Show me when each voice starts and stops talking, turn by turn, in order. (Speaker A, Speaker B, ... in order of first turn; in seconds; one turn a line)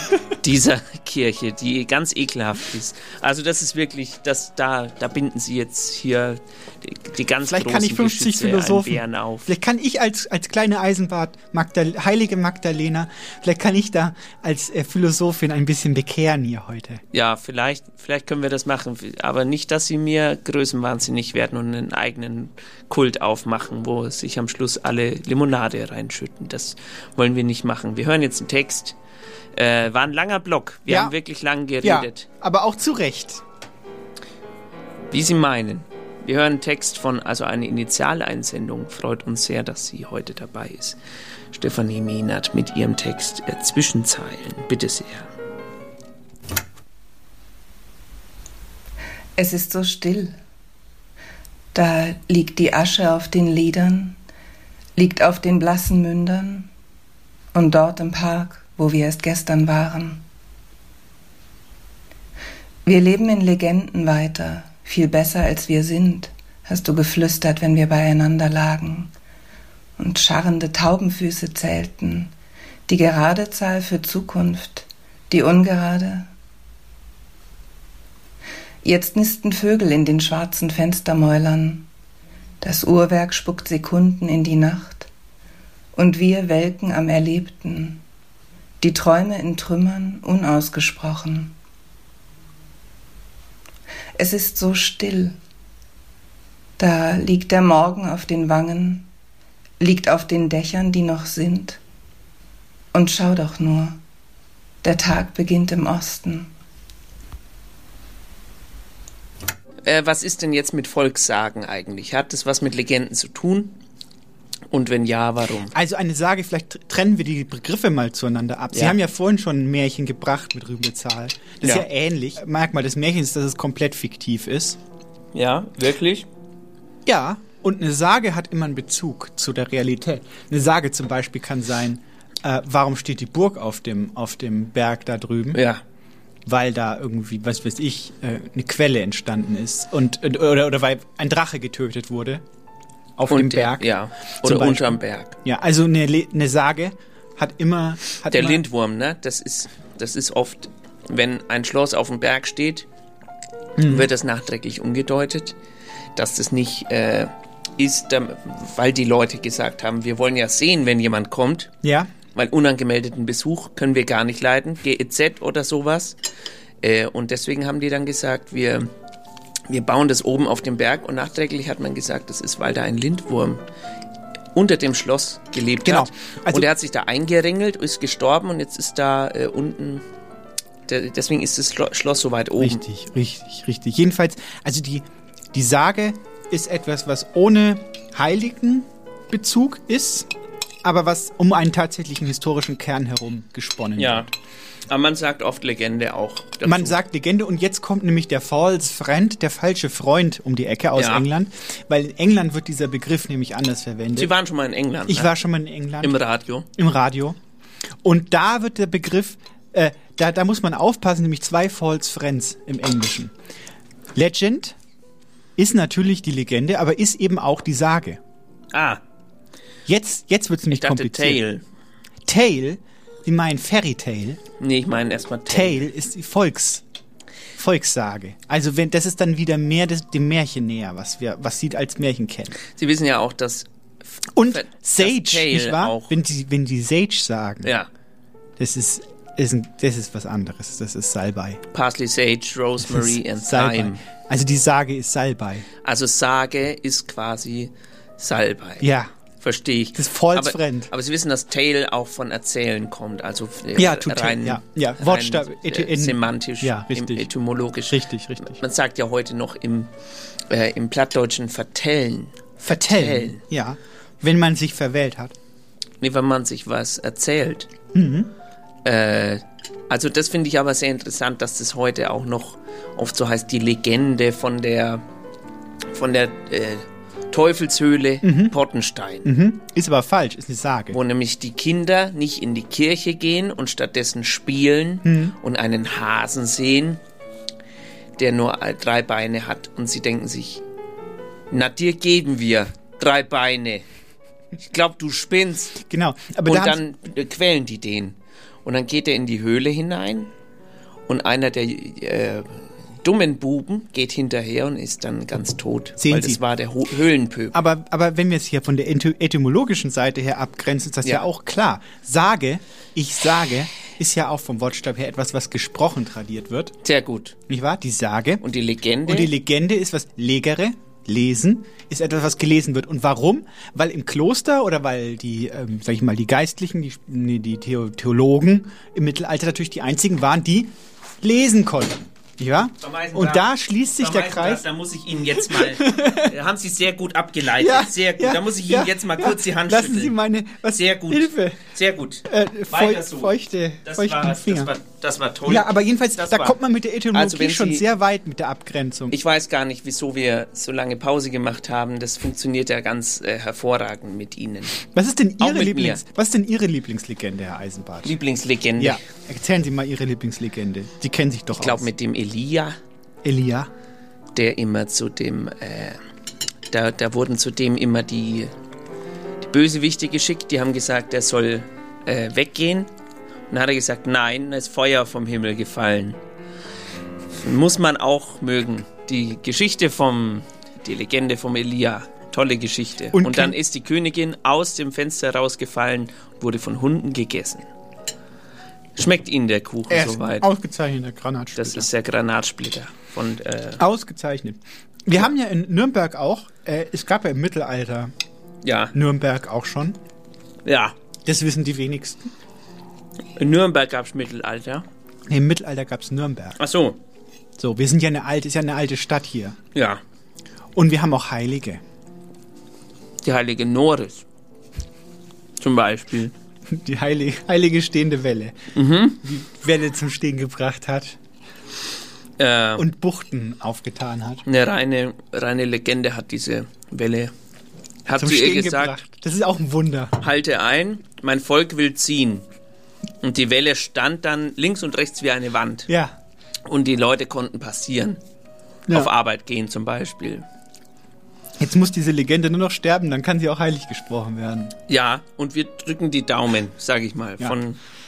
Speaker A: 0.3-9.5
Speaker B: 7.4-17.0
Speaker A: 17.1-29.0
Speaker A: 29.6-32.3
Speaker B: 30.9-31.1
Speaker B: 31.8-33.4
Speaker A: 35.1-41.0
Speaker A: 41.5-45.3
Speaker C: 49.4-50.4
Speaker C: 51.7-54.2
Speaker C: 55.0-56.7
Speaker C: 57.5-60.2
Speaker C: 62.9-69.1
Speaker C: 70.0-72.3
Speaker C: 72.9-76.3
Speaker C: 78.8-81.9
Speaker C: 82.6-85.1
Speaker C: 86.0-88.0
Speaker C: 88.8-91.6
Speaker C: 94.2-95.4
Speaker C: 96.8-99.1
Speaker C: 99.8-101.8
Speaker C: 102.9-104.0
Speaker C: 104.8-106.5
Speaker A: 109.8-113.8
Speaker A: 114.7-115.7
Speaker B: 115.7-124.8
Speaker A: 118.7-119.0
Speaker A: 125.3-126.3
Speaker B: 127.1-135.6
Speaker A: 135.5-135.8
Speaker B: 136.5-142.4
Speaker B: 143.2-148.6
Speaker A: 143.3-145.4
Speaker A: 148.3-152.9
Speaker B: 153.8-154.1
Speaker A: 153.9-155.6
Speaker A: 156.2-161.7
Speaker B: 161.8-162.1
Speaker A: 162.3-166.2
Speaker A: 166.8-168.9
Speaker A: 169.7-173.6
Speaker A: 174.6-180.0
Speaker B: 175.8-176.7
Speaker A: 180.9-182.8
Speaker B: 182.6-190.3
Speaker B: 190.8-194.3
Speaker A: 194.0-194.3
Speaker A: 194.9-197.0
Speaker B: 196.6-204.3
Speaker A: 201.0-201.3
Speaker A: 204.2-205.3
Speaker B: 205.1-206.2
Speaker A: 206.0-206.7
Speaker B: 206.8-207.4
Speaker B: 208.0-213.3
Speaker B: 214.2-214.8
Speaker B: 215.6-218.2
Speaker A: 218.7-219.0
Speaker B: 219.9-221.4
Speaker A: 220.7-221.6
Speaker B: 222.3-224.4
Speaker A: 224.6-225.9
Speaker B: 225.5-226.8
Speaker B: 227.6-232.6
Speaker A: 232.6-233.7
Speaker B: 234.3-237.7
Speaker A: 234.4-236.2
Speaker A: 237.6-237.9
Speaker B: 238.6-241.6
Speaker A: 241.7-244.0
Speaker B: 242.8-245.7
Speaker A: 245.8-248.9
Speaker B: 248.8-249.1
Speaker A: 249.4-259.9
Speaker B: 249.9-250.9
Speaker B: 253.8-257.3
Speaker B: 257.9-258.6
Speaker A: 260.5-263.4
Speaker B: 262.6-265.4
Speaker A: 266.0-267.7
Speaker B: 267.9-268.3
Speaker A: 268.8-275.0
Speaker A: 275.9-279.3
Speaker B: 278.2-278.6
Speaker B: 279.2-281.0
Speaker A: 280.9-287.0
Speaker B: 285.0-285.4
Speaker A: 288.2-290.6
Speaker A: 291.5-293.9
Speaker A: 294.7-295.8
Speaker B: 295.8-296.8
Speaker A: 296.4-300.3
Speaker A: 301.1-307.6
Speaker B: 306.0-306.4
Speaker B: 307.5-316.7
Speaker A: 316.8-317.4
Speaker B: 317.5-318.4
Speaker A: 318.4-319.3
Speaker B: 319.1-334.6
Speaker A: 332.8-333.5
Speaker A: 334.0-340.2
Speaker B: 335.4-336.3
Speaker B: 337.6-341.6
Speaker A: 340.7-346.6
Speaker B: 342.2-344.7
Speaker B: 345.5-349.2
Speaker A: 347.1-347.9
Speaker A: 349.1-354.8
Speaker B: 354.9-358.2
Speaker A: 355.4-356.0
Speaker A: 358.0-359.0
Speaker B: 358.8-361.9
Speaker A: 361.5-362.8
Speaker B: 363.2-363.7
Speaker A: 364.4-366.0
Speaker A: 366.7-368.5
Speaker A: 369.4-372.9
Speaker A: 373.5-376.2
Speaker A: 377.3-387.6
Speaker B: 383.1-383.6
Speaker A: 389.0-390.5
Speaker B: 389.9-391.9
Speaker A: 391.6-393.8
Speaker B: 393.8-398.1
Speaker A: 398.6-398.9
Speaker B: 398.9-400.0
Speaker A: 400.6-401.0
Speaker B: 401.2-402.3
Speaker A: 403.4-404.9
Speaker B: 405.3-406.6
Speaker A: 406.6-407.0
Speaker B: 407.6-409.6
Speaker A: 409.8-410.0
Speaker B: 410.8-411.8
Speaker A: 413.2-414.2
Speaker A: 415.6-416.3
Speaker B: 416.7-418.6
Speaker A: 418.8-419.2
Speaker B: 419.2-421.2
Speaker A: 422.4-422.9
Speaker B: 422.8-424.4
Speaker A: 424.5-427.3
Speaker A: 428.1-429.0
Speaker B: 428.1-430.2
Speaker A: 430.2-432.4
Speaker A: 433.2-435.9
Speaker B: 435.9-436.2
Speaker A: 436.7-438.2
Speaker A: 438.9-440.4
Speaker B: 441.6-444.8
Speaker A: 444.9-447.8